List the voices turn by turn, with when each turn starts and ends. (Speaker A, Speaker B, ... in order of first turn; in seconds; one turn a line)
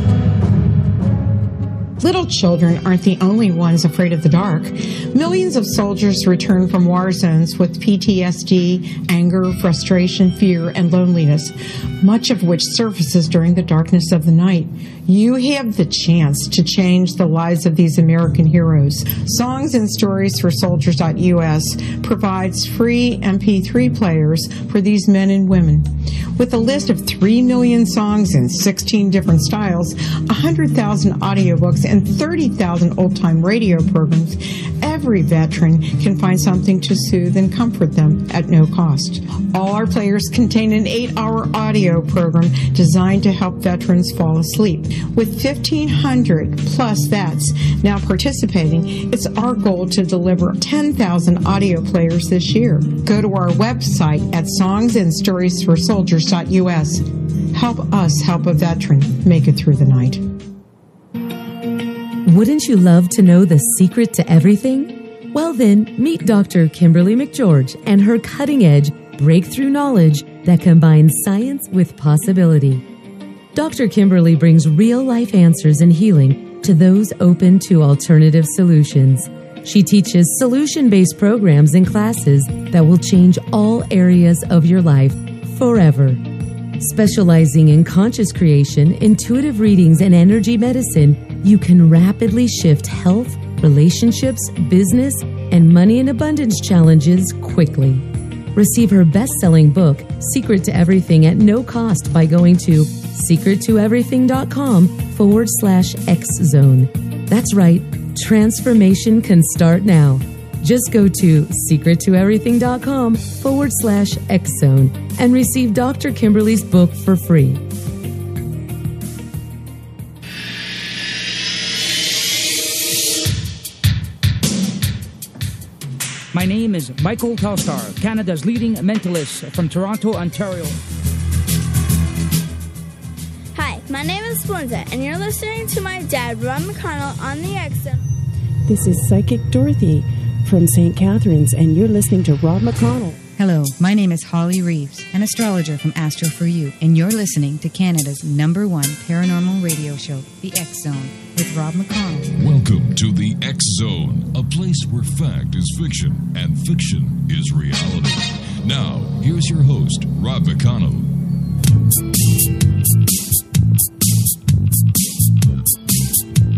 Speaker A: 2.0-60.2
Speaker B: 62.2-72.8
Speaker B: 73.5-86.2
Speaker B: 86.8-117.6
Speaker C: 126.3-130.8
Speaker D: 133.6-138.0
Speaker E: 138.7-143.2
Speaker F: 143.4-152.3
Speaker G: 152.4-161.1